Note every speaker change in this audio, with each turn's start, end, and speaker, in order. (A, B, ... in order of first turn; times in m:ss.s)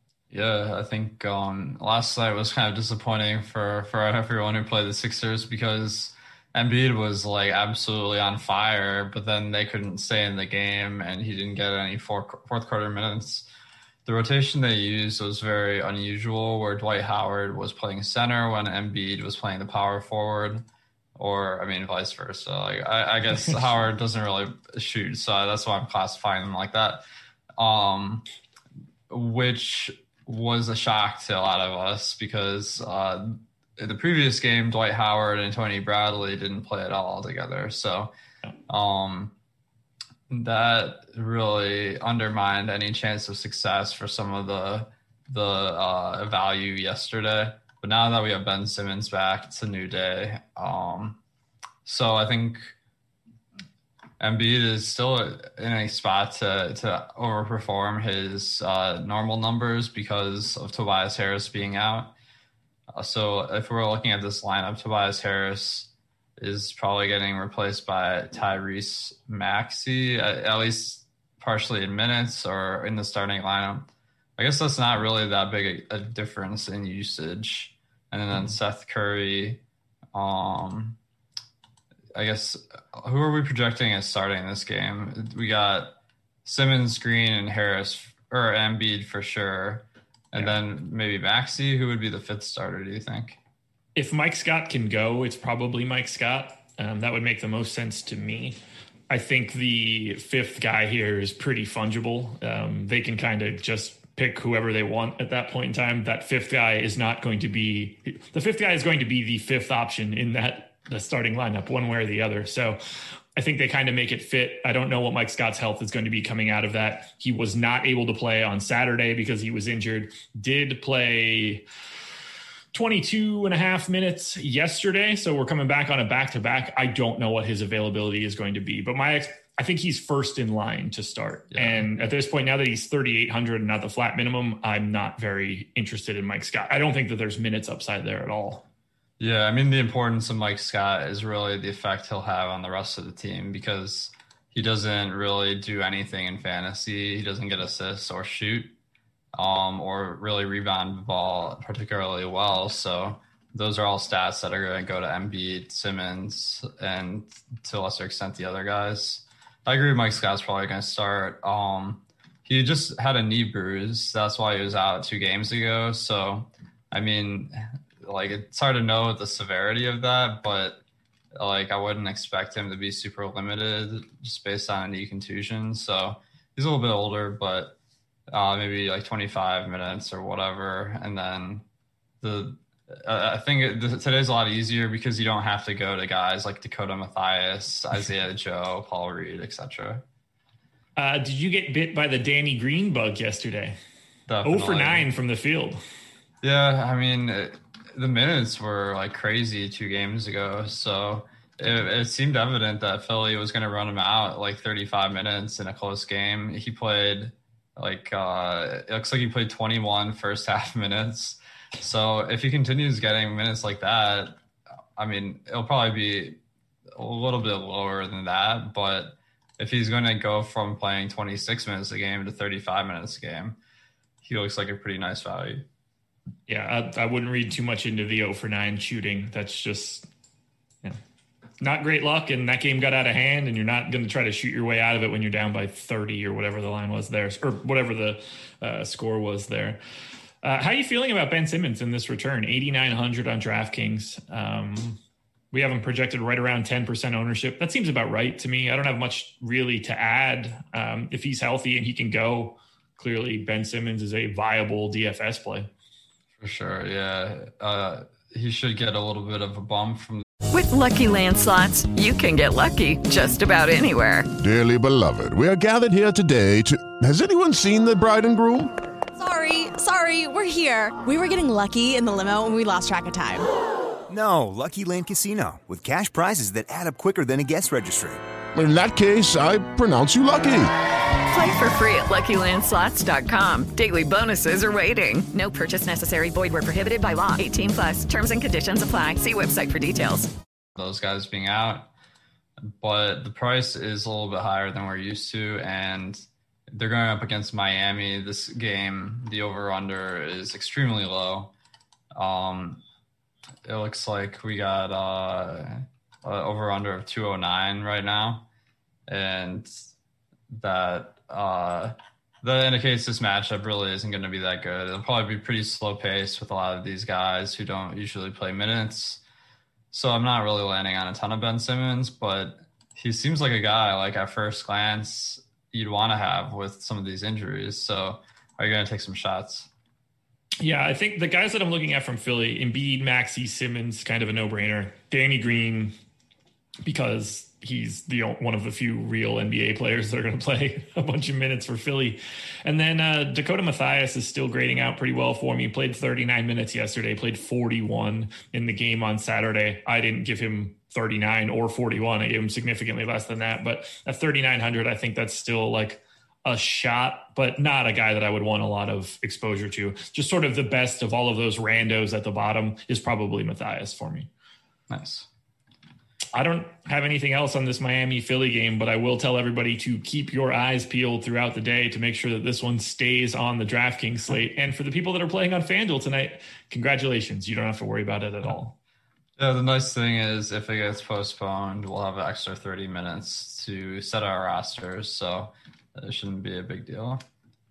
0:00.3-0:13.5 A
0:14.0-0:20.6 A
0:21.2-0:27.0 A
0:27.6-0:28.2 A
0:29.1-0:38.1 A
0:38.7-0:39.3 A
0:40.3-0:51.2 A
0:51.8-0:52.7 A
0:54.2-1:02.1 A
1:02.9-1:19.6 A
1:20.1-1:21.0 A
1:22.1-1:33.4 A
1:34.0-1:38.6 B
1:39.1-1:52.8 B
1:53.4-2:01.6 B
2:02.7-2:18.6 B
2:11.5-2:11.8 A
2:19.2-2:28.7 A
2:29.3-2:50.8 A
2:51.4-2:57.7 A
2:58.3-3:01.6 A
3:02.2-3:10.0 A
3:11.0-3:13.8 B
3:14.3-3:15.1 A
3:14.4-3:15.8 B
3:16.4-3:34.4 A
3:35.0-3:36.4 A
3:36.9-3:43.6 A
3:44.2-3:45.6 A
3:46.5-3:50.1 B
3:51.6-3:59.8 B
4:00.4-4:05.0 B
4:05.5-4:15.7 B
4:16.4-4:20.2 A
4:20.5-4:24.3 C
4:24.4-4:28.7 D
4:29.1-4:33.5 E
4:34.1-4:38.2 F
4:38.5-4:40.7 D
4:41.3-4:50.3 C
4:50.8-4:51.9 A
4:52.6-5:01.5 A
5:02.1-5:02.8 A
5:03.6-5:08.4 A
5:09.1-5:09.7 A
5:10.5-5:19.2 A
5:19.9-5:29.7 A
5:30.6-5:35.9 B
5:36.8-6:04.3 B
6:04.9-6:05.3 A
6:06.3-6:18.7 B
6:19.4-6:27.2 A